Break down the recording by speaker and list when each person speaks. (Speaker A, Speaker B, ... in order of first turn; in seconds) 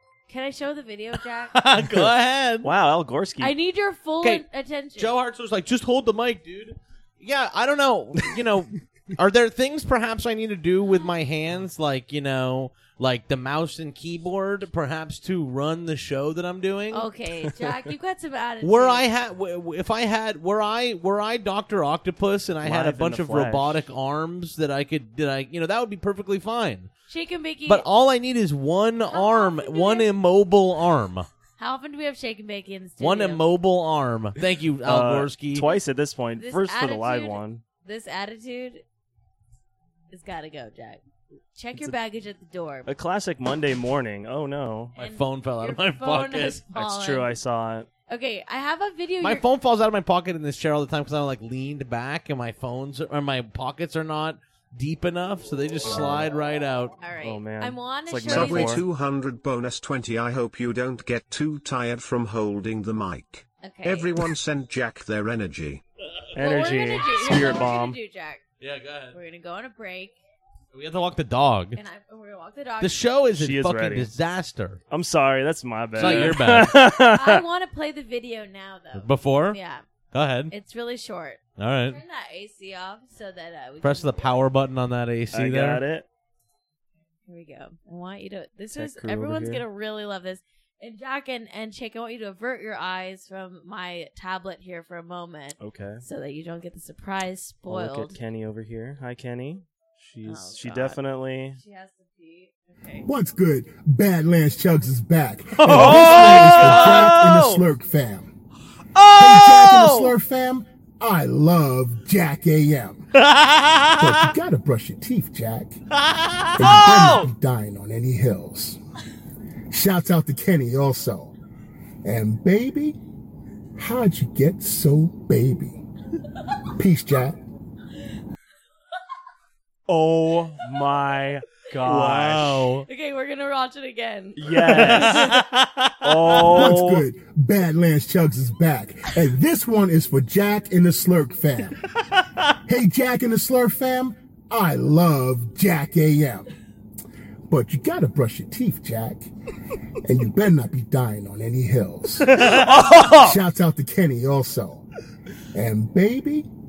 Speaker A: 0.3-1.6, 3.4-5.2, 16.9-19.1, 27.1-27.9, 29.1-30.1, 31.6-33.4, 36.4-38.8, 40.1-41.0, 41.5-42.9, 45.0-47.3, 48.1-49.4, 57.0-58.8, 63.6-64.2, 66.3-68.4, 69.1-70.2, 71.7-73.0, 76.0-79.8, 80.5-84.4, 87.3-98.2, 100.2-101.0, 101.5-103.0, 132.9-135.3
Speaker B: 1.5-2.7, 5.0-17.1, 18.6-26.9, 27.6-31.3, 33.0-35.6, 45.0-46.6, 49.2-57.0, 68.6-69.2, 70.7-71.8, 72.8-74.8, 75.9-76.7, 78.9-79.6, 80.1-80.5, 81.6-82.0, 83.8-85.8, 105.7-107.2, 113.1-114.3, 115.9-117.3, 131.8-132.8, 134.6-136.7
Speaker C: 1.8-3.5, 22.6-23.8, 34.8-37.6, 42.9-45.0, 46.7-47.9, 55.9-56.2, 57.2-58.8, 66.3-68.0, 73.3-74.1, 74.9-77.4, 85.3-86.0, 88.7-89.6, 95.6-96.0, 97.7-101.6, 105.6-107.6, 108.9-110.1, 116.6-117.3, 129.9-132.7, 134.4-135.4, 136.0-137.0, 152.3-153.4
Speaker D: 58.2-65.8
Speaker E: 103.0-108.3, 109.2-113.2, 114.0-115.8, 116.5-118.8, 119.7-121.3, 122.0-123.0, 123.8-125.8, 126.7-127.4, 136.4-141.8, 142.7-146.4, 147.5-149.3, 150.0-154.8, 155.5-156.5